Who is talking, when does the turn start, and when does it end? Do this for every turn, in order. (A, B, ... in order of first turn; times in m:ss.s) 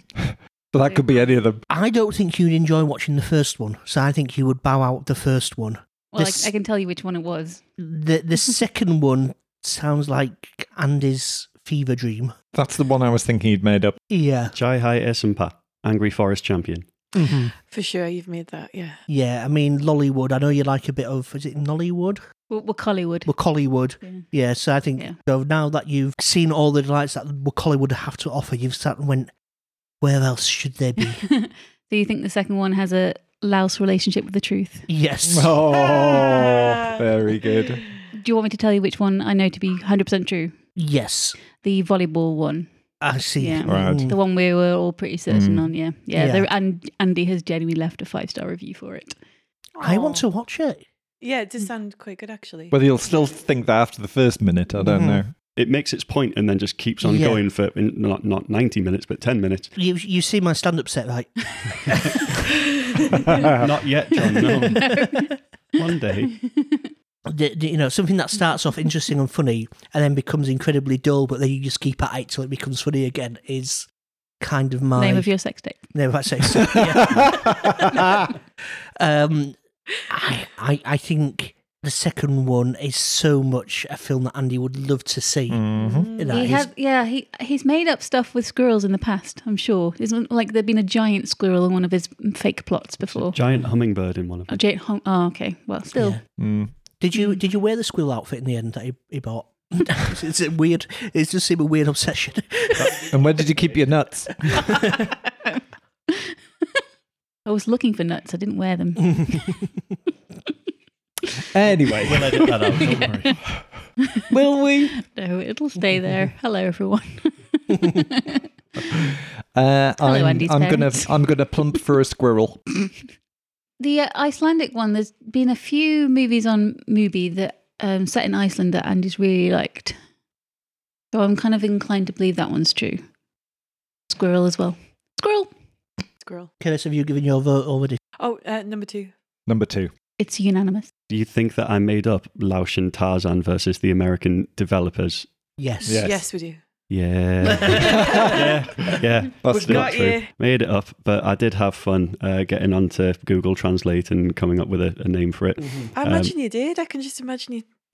0:00.2-0:01.6 A
0:00.8-0:01.3 B
0:01.7-0:06.5 C
0:06.1-0:07.6 B
0:07.8-0:12.3 C
0:12.5-0:14.0 A
0:14.1-0:14.5 C
0:14.5-0:16.9 D
0:17.1-0:17.5 C
0:17.7-0:19.0 E
0:19.1-0:22.2 C
0:22.5-0:23.3 B
0:23.2-0:29.3 C
0:30.0-0:31.2 C
0:31.0-0:34.9 B
0:34.9-0:35.6 C
0:35.3-0:37.8 A
0:35.7-0:36.8 E
0:38.1-0:40.5 B
0:40.8-0:41.4 C
0:41.6-0:42.7 B
0:43.0-0:44.2 C
0:43.4-0:49.2 B
0:43.7-0:44.1 A
0:45.3-0:45.7 A
0:46.1-0:46.5 C
0:49.8-0:50.2 E
0:49.8-0:50.8 C
0:51.2-0:52.8 E
0:52.7-0:55.3 A
0:54.8-0:55.2 C
0:55.6-0:59.7 D
0:57.0-0:57.4 C
0:59.8-1:02.3 C
1:03.6-1:05.0 D
1:04.7-1:05.3 B
1:05.8-1:06.3 D
1:06.4-1:06.9 B
1:07.3-1:13.9 C
1:14.4-1:18.2 C
1:15.0-1:15.8 B
1:16.6-1:18.2 A
1:19.0-1:26.7 C
1:25.5-1:26.1 A
1:25.8-1:26.4 E
1:26.3-1:33.4 B
1:33.3-1:34.6 D
1:34.5-1:36.2 B
1:35.9-1:36.2 C
1:36.4-1:36.7 A
1:36.8-1:43.0 C
1:43.1-1:44.7 A
1:47.4-1:49.6 B
1:51.5-1:52.8 A
1:52.0-1:53.4 D
1:54.3-1:55.0 A
1:54.8-1:58.5 B
1:59.0-2:02.6 A
2:00.0-2:01.2 B
2:03.8-2:10.0 B
2:11.1-2:13.0 B
2:14.1-2:15.5 B
2:16.2-2:16.5 E
2:16.6-2:18.0 C
2:18.2-2:19.1 E
2:19.5-2:19.9 A
2:20.2-2:20.9 B
2:21.1-2:25.3 D
2:25.6-2:26.1 C
2:25.8-2:26.2 A
2:26.0-2:26.6 E
2:26.9-2:36.4 D
2:27.5-2:27.8 C
2:27.8-2:30.2 A
2:28.1-2:28.4 E
2:29.5-2:30.3 E
2:36.0-2:37.7 E